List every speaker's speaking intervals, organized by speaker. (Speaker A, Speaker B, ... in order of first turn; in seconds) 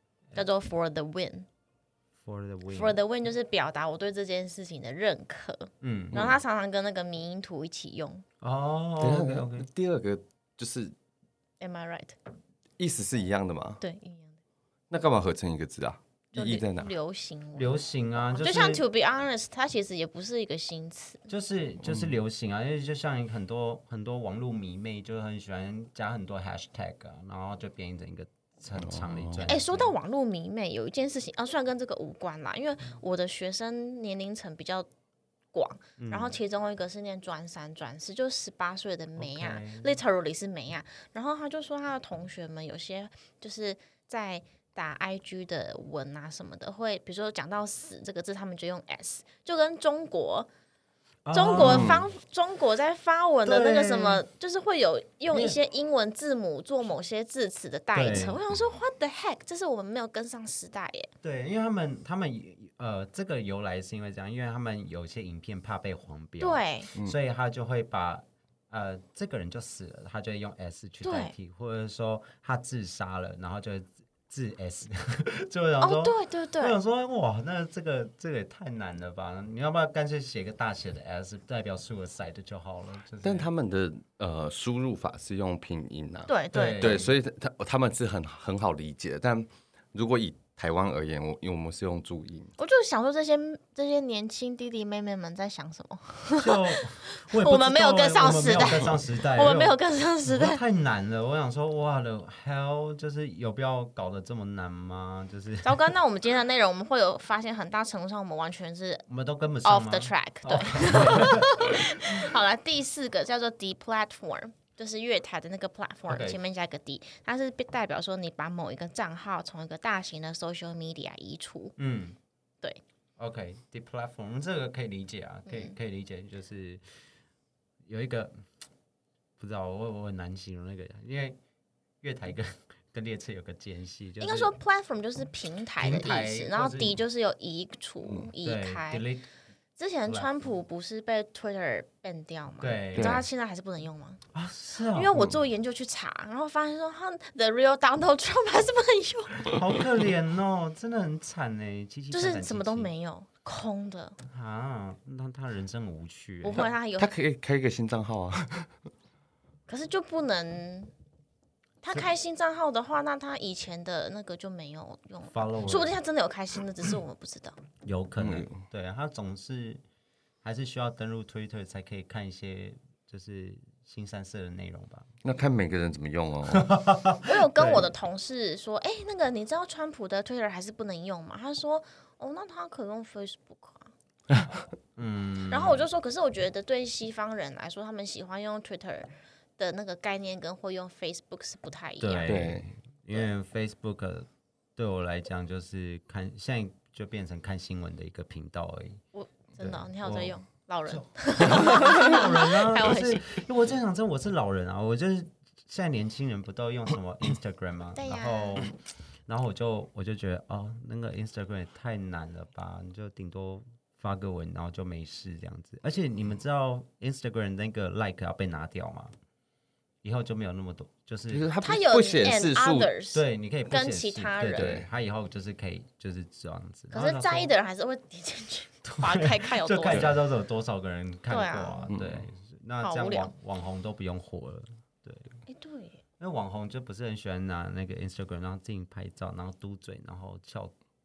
Speaker A: 0.3-1.5, 2.7-8.2, 11.6-12.2, 13.8-14.4, 16.3-21.3, 29.5-34.9, 35.5-50.5, 51.3-61.1, 66.4-66.9, 71.0-71.3, 75.8-76.8, 86.3-87.0, 92.6-100.6, 105.6-109.0, 109.6-121.7, 125.5-125.7, 134.2-139.0, 139.8-144.2, 144.9-149.5, 152.1-154.2, 156.4-157.1, 159.7-160.9, 161.8-167.6, 177.2-183.9, 185.5-192.4, 199.1-203.4, 207.9-208.7, 221.6-224.8, 226.9-230.1, 231.3-231.9, 232.8-233.3, 235.5-236.0
Speaker B: 2.2-3.0, 5.8-6.3, 8.4-9.7, 17.5-18.8, 21.3-29.9, 36.0-36.4, 39.2-40.0, 51.2-52.0, 53.5-54.2, 55.3-55.6, 57.9-58.4, 61.2-83.5, 86.5-87.1, 96.4-105.9, 109.1-112.0, 116.1-116.4, 121.8-122.2, 123.2-126.8, 127.8-128.4, 129.4-131.4, 132.0-134.5, 135.8-137.0, 138.4-139.2, 142.6-143.2, 144.3-145.4, 149.4-152.9, 154.3-156.7, 165.3-165.9, 167.8-169.8, 170.4-175.1, 176.5-177.9, 185.0-185.8, 192.0-199.0, 199.6-219.1, 220.0-221.5, 223.1-227.5, 228.8-235.4, 236.2-240.7
Speaker C: 6.1-6.4, 9.0-10.9, 12.8-13.8, 14.9-16.9, 21.8-22.1, 28.8-29.5, 51.5-52.1, 83.2-92.5, 138.0-138.3, 142.9-143.2, 156.5-158.7, 168.2-168.6, 175.2-176.7, 184.3-184.5, 192.2-192.7, 221.3-222.9, 224.6-224.9, 231.9-232.2